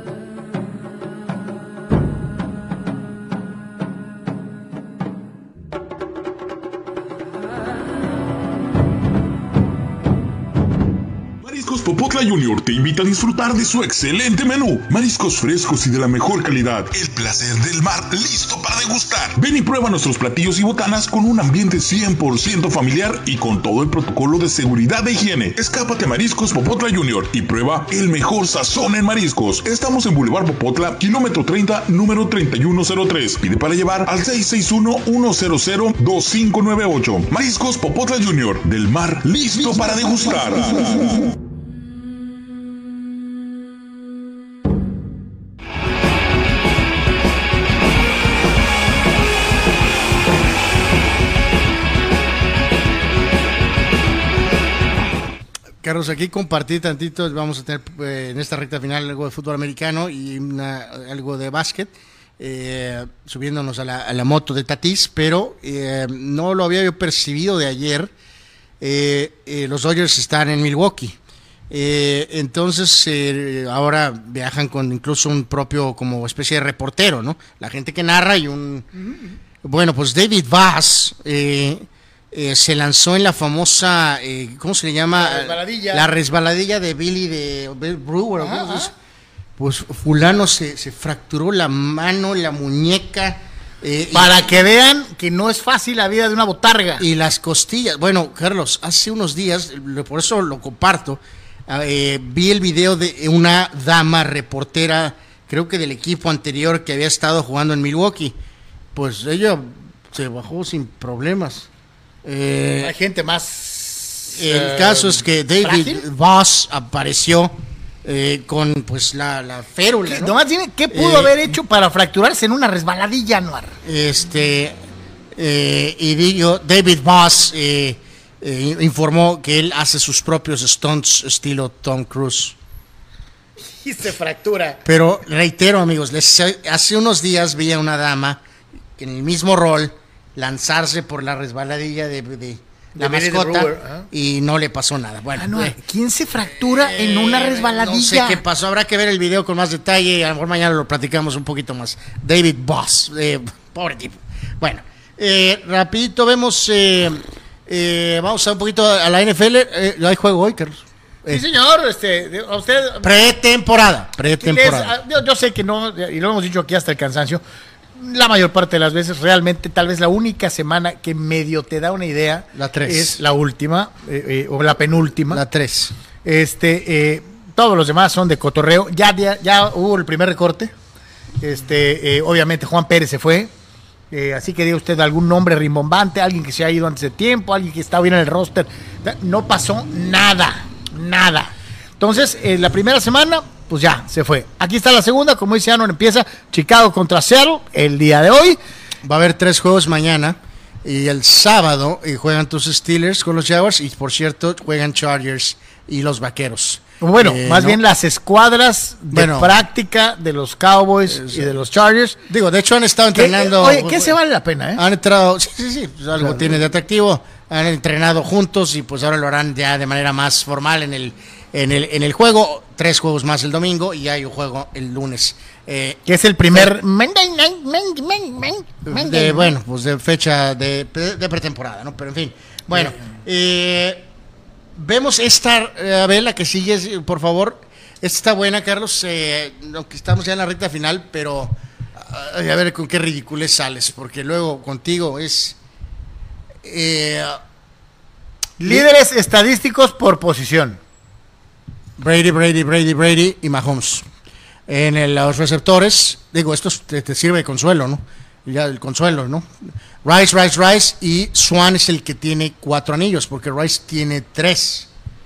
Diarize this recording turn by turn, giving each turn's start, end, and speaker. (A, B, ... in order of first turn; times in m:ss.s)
0:11.4-0:41.3 A
0:55.8-1:08.1 B
1:08.8-1:11.2 B
1:11.7-1:18.9 B
1:19.0-1:19.3 C
1:19.6-1:28.9 B
1:25.2-1:26.1 C
1:28.4-1:28.9 C
1:29.6-1:34.6 B
1:34.1-1:37.0 C
1:37.0-1:48.4 B
1:48.9-1:51.7 B
1:52.2-1:52.9 B
1:52.8-1:56.0 C
1:54.4-2:00.4 B
2:00.0-2:03.8 C
2:00.9-2:01.4 B
2:03.8-2:04.8 B
2:05.3-2:12.6 B
2:13.7-2:14.8 C
2:14.8-2:18.4 B
2:19.0-2:25.8 B
2:23.0-2:24.1 C
2:25.4-2:28.4 C
2:26.5-2:41.4 B
2:41.3-2:43.2 C
2:43.0-2:45.0 B
2:44.3-2:47.4 C
2:48.0-2:55.4 C
2:52.5-2:53.2 B
2:55.3-2:55.9 B
2:56.2-3:00.7 C
3:01.4-3:03.5 C
3:04.1-3:18.6 C
3:19.0-3:27.8 B
3:27.0-3:32.2 C
3:29.1-3:29.6 B
3:31.1-3:31.5 B
3:32.3-3:34.2 B
3:33.1-3:34.8 C
3:34.7-3:46.7 B
3:36.2-3:36.5 C
3:46.0-3:49.5 C
3:48.8-3:54.1 B
3:52.7-3:53.1 C
3:54.8-4:05.6 B
4:06.6-4:07.4 B
4:08.6-4:10.8 C
4:08.6-4:08.9 B
4:12.0-4:14.0 B
4:14.7-4:19.5 B
4:20.0-4:24.9 B